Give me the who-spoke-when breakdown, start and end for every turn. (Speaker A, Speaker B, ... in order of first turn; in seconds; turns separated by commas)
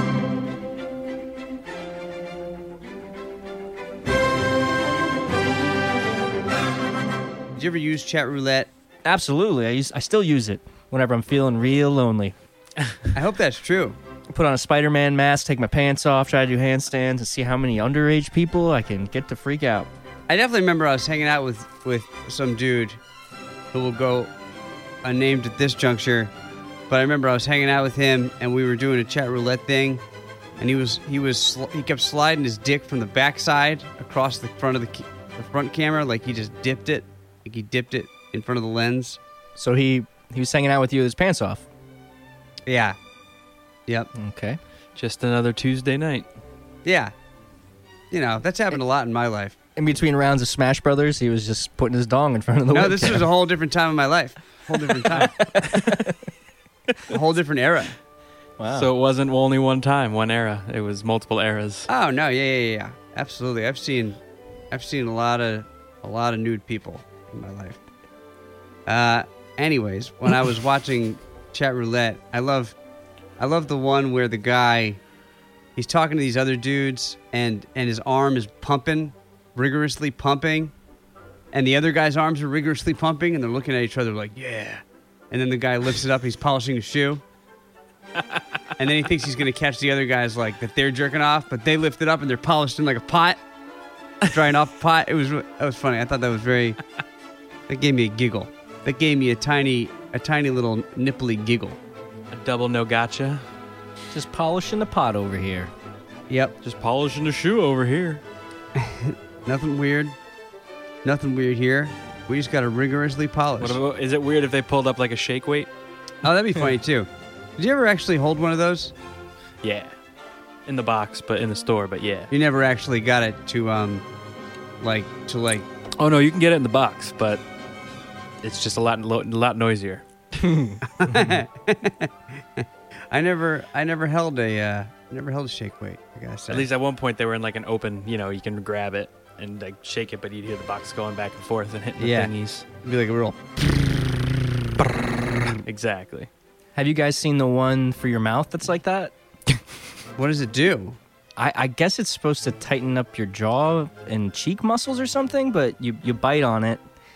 Speaker A: 7.5-8.7, Speaker B: 9.1-12.3, Speaker A: 13.1-14.0, Speaker B: 14.3-19.9, Speaker A: 20.3-23.0, Speaker A: 23.7-24.3, Speaker A: 25.0-26.3, Speaker A: 26.9-30.0, Speaker A: 30.6-39.2, Speaker B: 39.6-41.6, Speaker A: 42.7-43.0, Speaker B: 44.1-44.6, Speaker C: 45.0-46.3, Speaker A: 46.9-47.1, Speaker A: 48.1-49.6, Speaker B: 49.8-53.3, Speaker A: 52.7-55.5, Speaker B: 55.0-56.2, Speaker A: 57.1-57.9, Speaker B: 58.6-58.9, Speaker C: 58.8-61.9, Speaker A: 61.9-64.2, Speaker A: 64.7-67.8, Speaker A: 68.9-72.8, Speaker A: 73.4-75.0, Speaker A: 75.8-80.7, Speaker A: 81.5-87.2, Speaker A: 88.8-93.4, Speaker A: 94.2-96.8, Speaker A: 97.7-101.8, Speaker C: 102.3-103.4, Speaker B: 104.1-105.7, Speaker A: 106.3-106.5, Speaker C: 106.6-108.2, Speaker A: 108.8-110.2, Speaker A: 111.0-113.8, Speaker C: 113.6-115.7, Speaker A: 116.2-118.9, Speaker C: 119.6-119.9, Speaker C: 120.7-122.3, Speaker A: 122.3-124.0, Speaker A: 124.8-125.7, Speaker C: 126.0-127.4, Speaker C: 128.4-130.0, Speaker B: 130.4-131.4, Speaker A: 130.8-136.7, Speaker C: 136.5-142.7, Speaker A: 142.0-143.4, Speaker C: 145.6-146.3, Speaker B: 146.8-149.1, Speaker A: 150.2-151.0, Speaker B: 151.4-156.8